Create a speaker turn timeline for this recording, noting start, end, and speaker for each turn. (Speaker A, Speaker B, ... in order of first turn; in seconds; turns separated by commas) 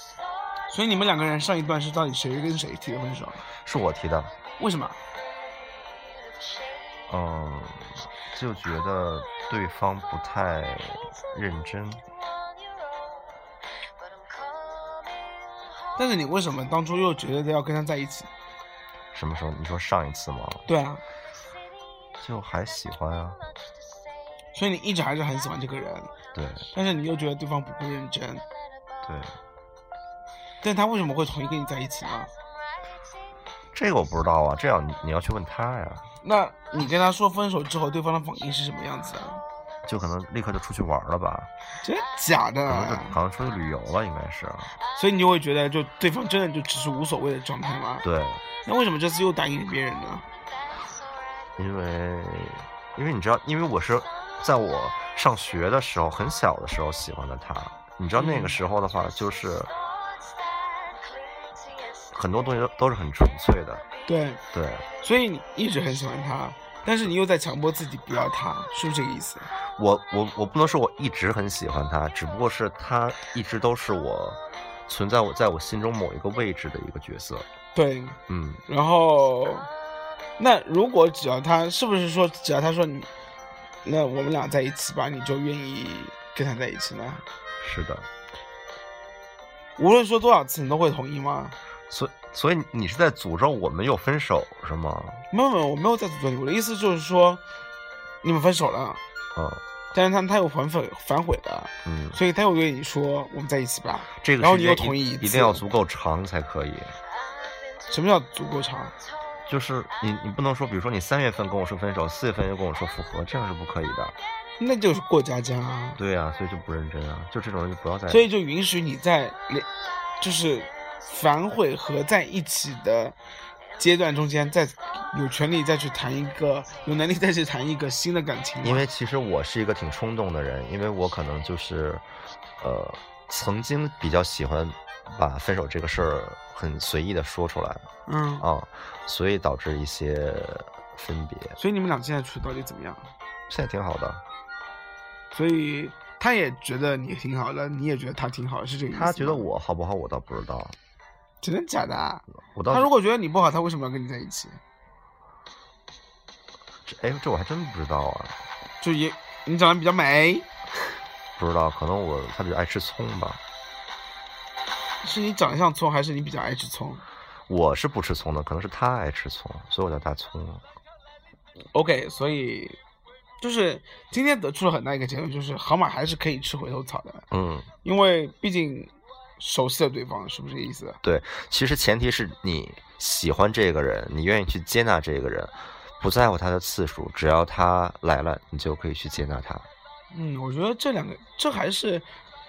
Speaker A: 0.7-3.4, Speaker B: 3.6-4.3, Speaker A: 4.6-5.0, Speaker B: 7.1-12.0, Speaker A: 15.9-18.3, Speaker B: 19.1-20.6, Speaker A: 20.7-21.0, Speaker B: 22.2-23.4, Speaker A: 24.5-26.1, Speaker B: 26.3-26.7, Speaker A: 26.7-28.4, Speaker B: 29.1-29.3, Speaker A: 30.6-32.3, Speaker B: 33.7-36.1, Speaker A: 36.2-39.4, Speaker B: 39.8-41.5, Speaker A: 41.8-43.2, Speaker B: 42.7-44.7, Speaker A: 44.9-48.0, Speaker B: 48.0-48.4, Speaker A: 48.6-50.2, Speaker B: 51.6-59.7, Speaker A: 58.2-58.6, Speaker B: 62.1-63.8, Speaker A: 64.1-64.4, Speaker B: 64.5-64.9, Speaker A: 65.0-69.5, Speaker B: 69.8-77.5, Speaker A: 77.7-79.7, Speaker B: 78.3-78.6, Speaker A: 80.4-83.1, Speaker A: 83.8-87.2, Speaker B: 87.6-88.1, Speaker A: 89.8-91.5, Speaker B: 91.9-95.2, Speaker A: 95.3-97.4, Speaker A: 98.2-99.0, Speaker B: 99.3-99.6, Speaker A: 99.9-105.6, Speaker B: 101.8-102.2, Speaker B: 104.2-107.0, Speaker A: 107.9-108.9, Speaker B: 109.5-114.2, Speaker A: 114.6-116.0, Speaker B: 116.0-118.3, Speaker A: 118.1-119.7, Speaker A: 120.2-123.2, Speaker A: 123.8-128.8, Speaker B: 128.6-132.0, Speaker B: 132.6-137.9, Speaker A: 138.1-138.5, Speaker B: 138.4-141.6, Speaker A: 141.6-143.1, Speaker B: 143.5-144.2, Speaker A: 145.3-149.5, Speaker B: 148.9-150.8, Speaker A: 151.4-154.6, Speaker B: 152.5-152.9, Speaker B: 156.8-158.4, Speaker A: 158.8-160.5, Speaker B: 161.4-163.4, Speaker A: 165.0-167.0, Speaker B: 167.5-170.6, Speaker A: 171.7-172.8, Speaker A: 173.4-177.2, Speaker B: 177.3-177.7, Speaker A: 177.8-181.0, Speaker B: 181.0-189.7, Speaker A: 190.1-192.1